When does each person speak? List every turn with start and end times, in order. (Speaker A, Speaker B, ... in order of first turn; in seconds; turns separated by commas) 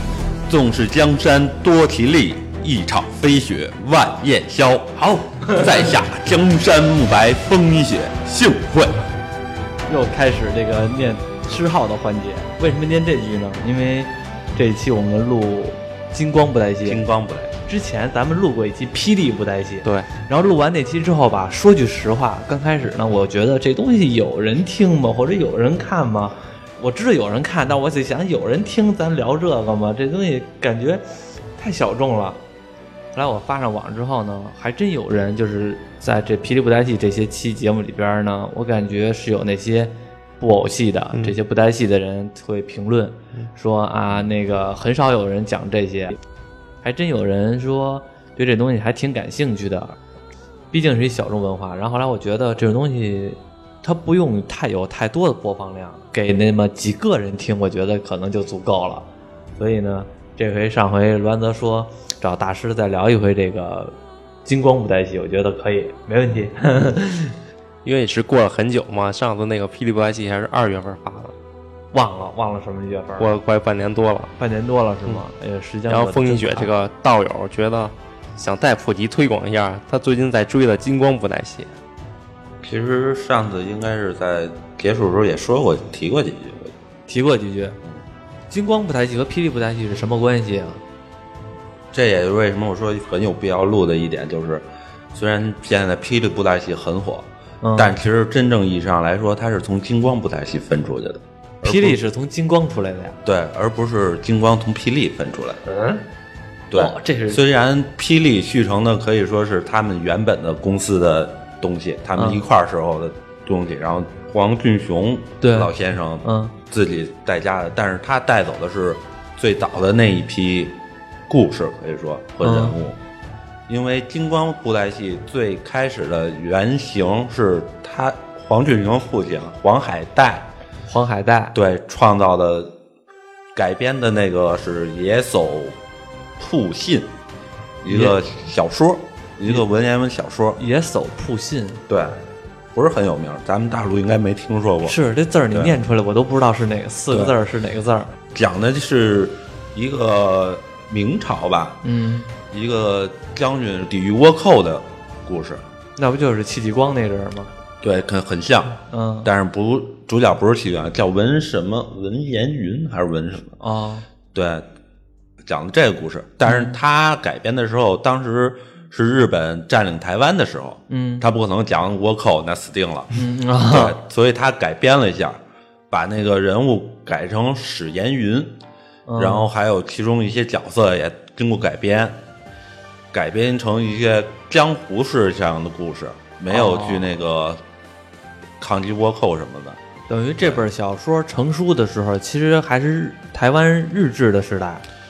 Speaker A: 0.5-9.1, Speaker B: 9.9-17.0, Speaker A: 16.8-17.5, Speaker B: 17.6-31.0, Speaker B: 31.6-32.4, Speaker B: 33.1-46.2, Speaker B: 46.8-50.0, Speaker B: 50.7-67.4, Speaker C: 67.8-71.3, Speaker B: 71.9-73.3, Speaker C: 73.2-74.3, Speaker B: 74.4-76.7, Speaker C: 75.9-81.7, Speaker A: 82.6-86.7, Speaker B: 87.1-87.8, Speaker B: 88.5-90.8, Speaker A: 91.9-102.0, Speaker B: 97.6-98.0, Speaker B: 101.6-103.2, Speaker A: 103.2-105.6, Speaker B: 105.7-106.0, Speaker A: 106.7-123.0, Speaker B: 106.7-107.4, Speaker B: 112.2-112.5, Speaker B: 115.4-116.5, Speaker B: 122.4-122.8, Speaker A: 123.7-130.5, Speaker B: 130.9-131.5, Speaker A: 131.5-132.8, Speaker A: 133.5-135.8, Speaker A: 136.4-137.1, Speaker A: 137.8-140.6, Speaker B: 137.9-138.2, Speaker B: 140.6-141.8, Speaker A: 141.9-142.2, Speaker A: 142.7-145.0, Speaker B: 144.8-148.1, Speaker A: 145.5-145.8, Speaker A: 148.3-151.8, Speaker B: 151.8-152.3, Speaker A: 152.4-155.6, Speaker B: 156.0-157.5, Speaker A: 157.8-163.6, Speaker B: 158.9-159.3, Speaker B: 163.6-164.1, Speaker A: 164.3-164.7, Speaker A: 165.4-173.2, Speaker B: 166.4-166.8, Speaker B: 170.9-171.3, Speaker B: 173.1-174.0, Speaker A: 173.7-178.6, Speaker B: 179.1-179.5, Speaker A: 179.2-182.2, Speaker A: 183.1-187.6, Speaker B: 186.5-187.2, Speaker A: 188.6-189.8, Speaker B: 190.1-194.8